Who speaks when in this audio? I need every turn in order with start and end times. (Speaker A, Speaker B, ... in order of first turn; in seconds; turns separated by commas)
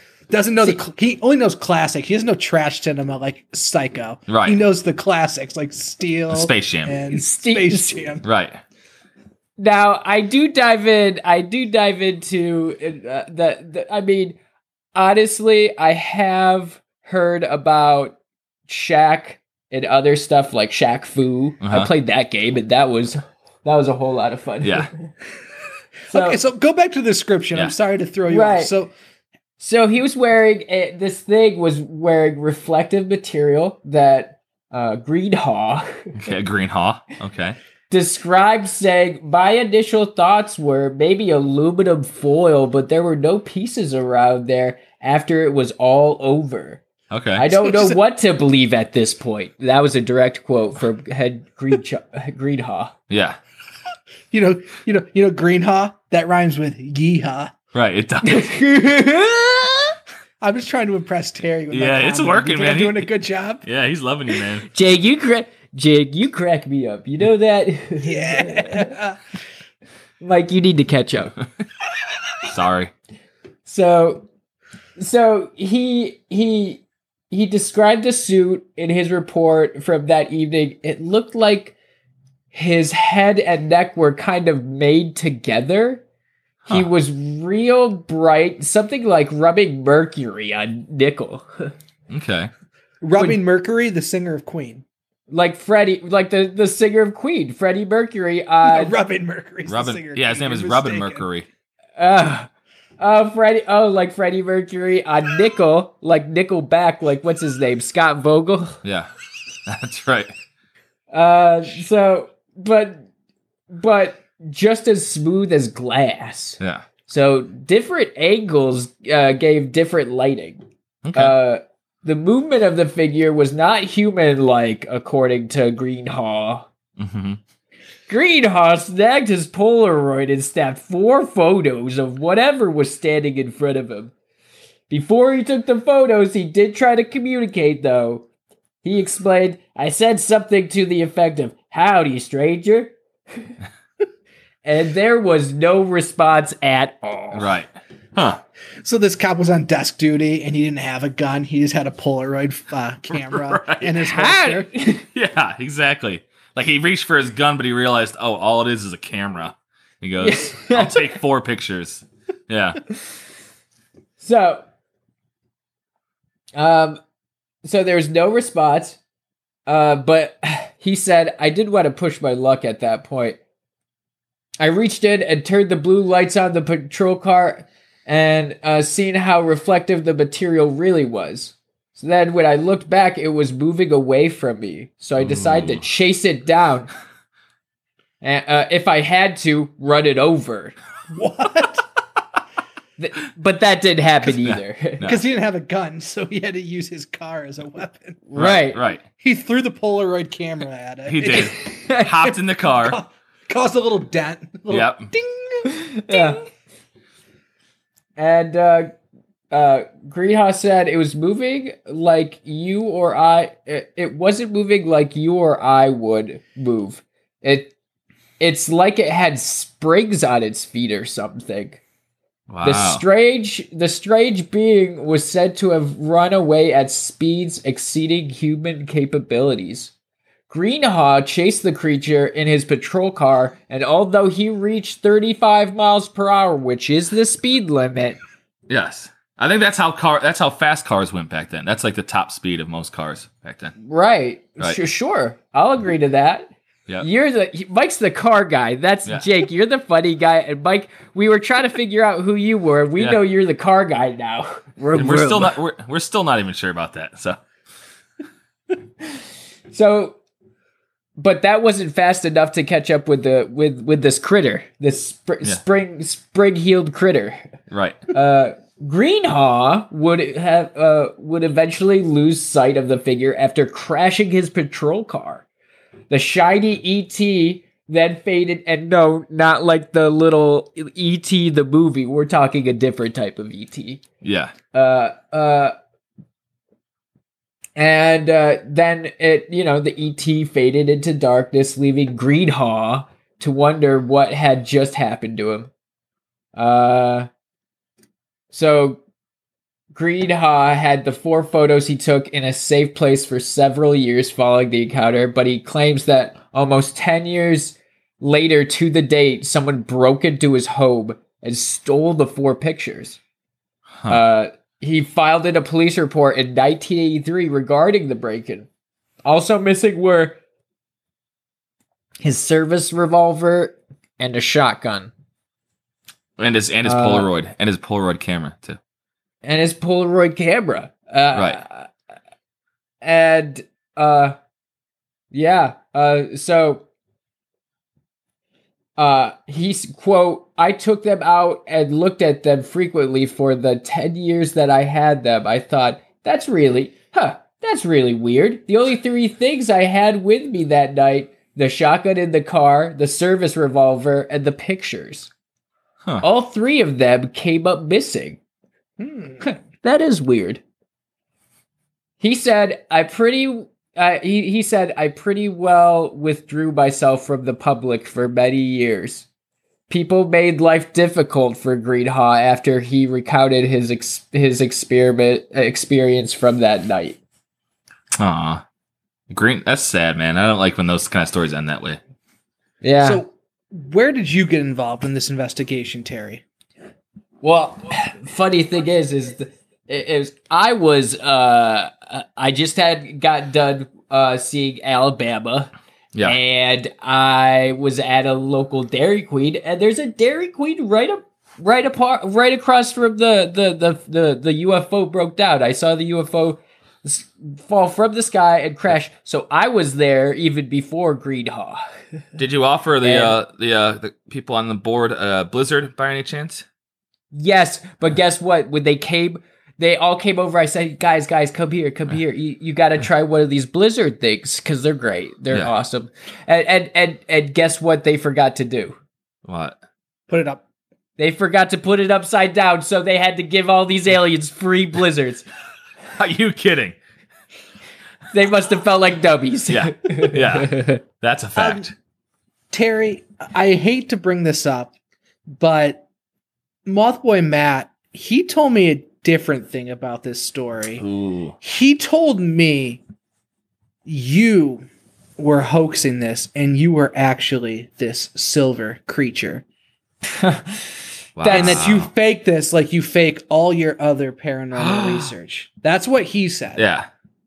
Speaker A: 0.3-8.2, Speaker B: 4.3-4.6, Speaker B: 6.3-6.9, Speaker C: 7.1-8.0, Speaker B: 8.2-8.6, Speaker C: 9.6-14.4, Speaker C: 14.9-18.2, Speaker C: 18.7-24.9, Speaker B: 21.6-21.9, Speaker B: 24.6-24.9, Speaker A: 26.1-28.9, Speaker C: 26.1-26.4, Speaker C: 28.3-28.7, Speaker C: 29.6-36.1, Speaker B: 36.2-37.6, Speaker C: 37.9-46.8, Speaker B: 47.1-47.4, Speaker C: 47.4-52.9, Speaker A: 47.5-48.0, Speaker B: 53.1-53.4, Speaker A: 54.3-57.5, Speaker B: 57.7-58.5, Speaker C: 58.2-59.9, Speaker A: 60.4-63.6, Speaker B: 61.7-63.1, Speaker B: 63.6-64.7, Speaker C: 64.7-68.9, Speaker A: 68.0-69.2, Speaker C: 70.2-71.3, Speaker B: 72.4-72.9, Speaker C: 73.6-74.2, Speaker C: 75.0-81.7, Speaker C: 82.5-86.0, Speaker C: 86.7-91.7, Speaker B: 92.1-92.5, Speaker A: 93.0-94.8, Speaker C: 95.3-99.0, Speaker A: 98.6-101.2, Speaker B: 99.7-101.5, Speaker C: 102.0-102.5, Speaker C: 103.0-108.8, Speaker B: 108.8-109.1, Speaker B: 109.7-110.3, Speaker C: 111.1-113.1, Speaker C: 113.7-120.6, Speaker B: 121.0-121.3, Speaker C: 121.1-126.7, Speaker B: 127.0-127.4, Speaker C: 128.1-134.1, Speaker C: 134.9-138.2, Speaker C: 138.8-142.9, Speaker C: 144.6-147.5, Speaker B: 147.3-148.4, Speaker A: 148.8-154.7, Speaker B: 153.1-154.0, Speaker C: 154.0-155.0, Speaker B: 155.1-162.8, Speaker C: 160.2-161.1, Speaker C: 164.2-164.6, Speaker C: 166.5-167.0, Speaker C: 167.6-169.0, Speaker C: 169.7-173.4, Speaker C: 174.6-186.9, Speaker B: 185.2-185.8, Speaker C: 188.2-190.8, Speaker A: 191.1-191.8, Speaker C: 193.0-195.1, Speaker B: 194.2-195.2, Speaker A: 195.0-198.2, Speaker C: 198.3-198.8, Speaker B: 198.3-199.0, Speaker A: 199.2-201.6, Speaker B: 201.1-203.0, Speaker C: 201.3-202.1, Speaker A: 202.2-206.4, Speaker B: 204.7-205.1, Speaker C: 205.7-206.4, Speaker C: 208.2-208.9, Speaker C: 209.5-217.7, Speaker C: 218.4-221.8, Speaker B: 222.5-223.0, Speaker C: 222.6-229.9, Speaker C: 230.5-238.2, Speaker B: 238.7-243.7, Speaker C: 243.8-255.5, Speaker B: 254.9-257.4, Speaker C: 259.7-260.2, Speaker C: 261.2-267.5, Speaker B: 267.7-268.0, Speaker C: 268.1-275.4, Speaker C: 276.1-284.0, Speaker B: 284.2-284.5, Speaker C: 284.7-285.7, Speaker C: 287.8-295.7, Speaker C: 296.6-297.3, Speaker C: 298.5-299.0, Speaker C: 299.9-313.2, Speaker C: 314.1-318.7, Speaker C: 319.2-320.4, Speaker C: 322.2-325.1, Speaker B: 326.4-328.8, Speaker C: 326.8-327.3, Speaker C: 329.4-331.9, Speaker C: 333.0-334.4, Speaker C: 335.3-336.8, Speaker C: 339.0-355.3, Speaker C: 356.2-358.4, Speaker A: 359.0-359.5, Speaker C: 359.8-360.6, Speaker C: 362.2-369.2, Speaker C: 369.9-377.2, Speaker B: 378.2-378.6, Speaker B: 379.3-382.0, Speaker C: 382.8-383.2, Speaker A: 383.0-386.4, Speaker C: 387.4-395.7, Speaker C: 396.2-411.8, Speaker B: 412.4-416.6, Speaker C: 413.0-413.3, Speaker C: 417.3-428.9, Speaker B: 429.4-429.8, Speaker A: 430.3-430.6, Speaker C: 431.2-435.4, Speaker B: 436.2-436.9, Speaker C: 438.3-441.0, Speaker B: 439.7-441.9, Speaker A: 441.6-441.9, Speaker A: 442.7-444.9, Speaker A: 445.6-446.0, Speaker A: 446.9-451.0, Speaker B: 451.0-451.5, Speaker A: 451.6-453.0, Speaker A: 454.1-454.9, Speaker A: 455.4-459.6, Speaker C: 460.3-460.9, Speaker B: 461.4-462.1, Speaker C: 461.4-461.8, Speaker A: 461.5-466.8, Speaker B: 464.7-465.3, Speaker B: 466.8-467.1